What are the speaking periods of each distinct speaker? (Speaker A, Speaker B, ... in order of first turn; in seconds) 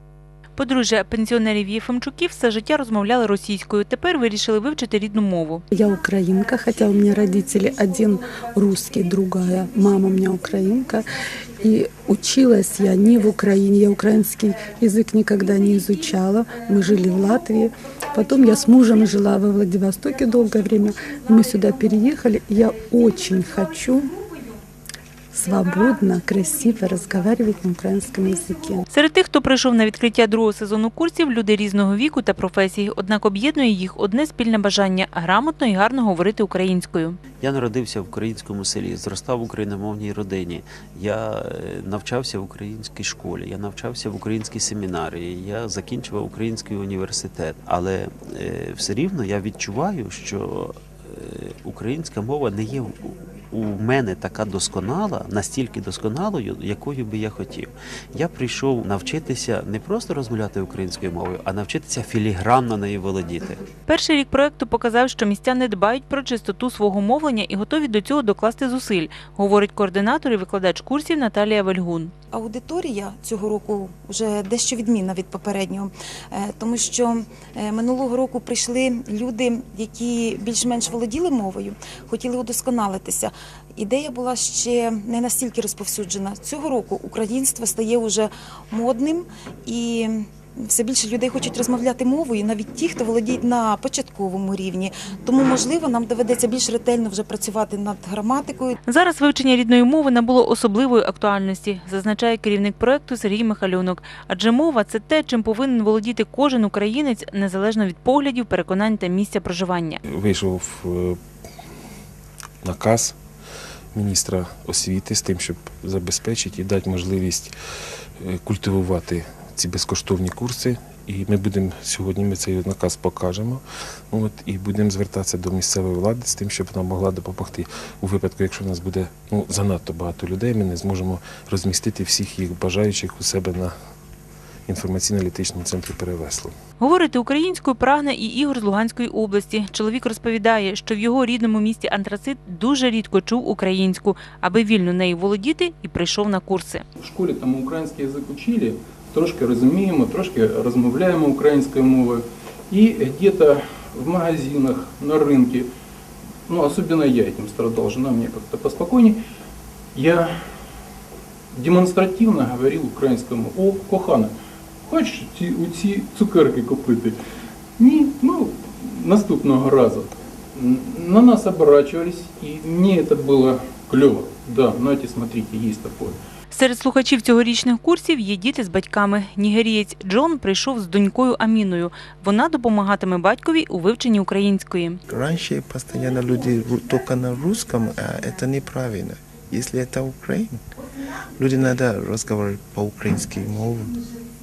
Speaker A: 0.6-5.6, 28.9-37.2, 63.9-72.1, 98.9-110.0, 136.8-146.8, 176.5-185.0
Speaker B: 5.7-11.0, 11.6-24.1, 25.3-28.8
Speaker C: 37.4-63.6
Speaker D: 72.3-98.8
Speaker E: 110.1-111.2, 112.6-113.2, 113.9-117.5, 118.2-133.7, 134.7-136.5
Speaker F: 147.0-155.7, 156.5-159.2, 159.9-160.4, 161.5-164.3, 164.9-167.2, 167.8-176.2
Speaker G: 185.1-190.5, 191.4-194.0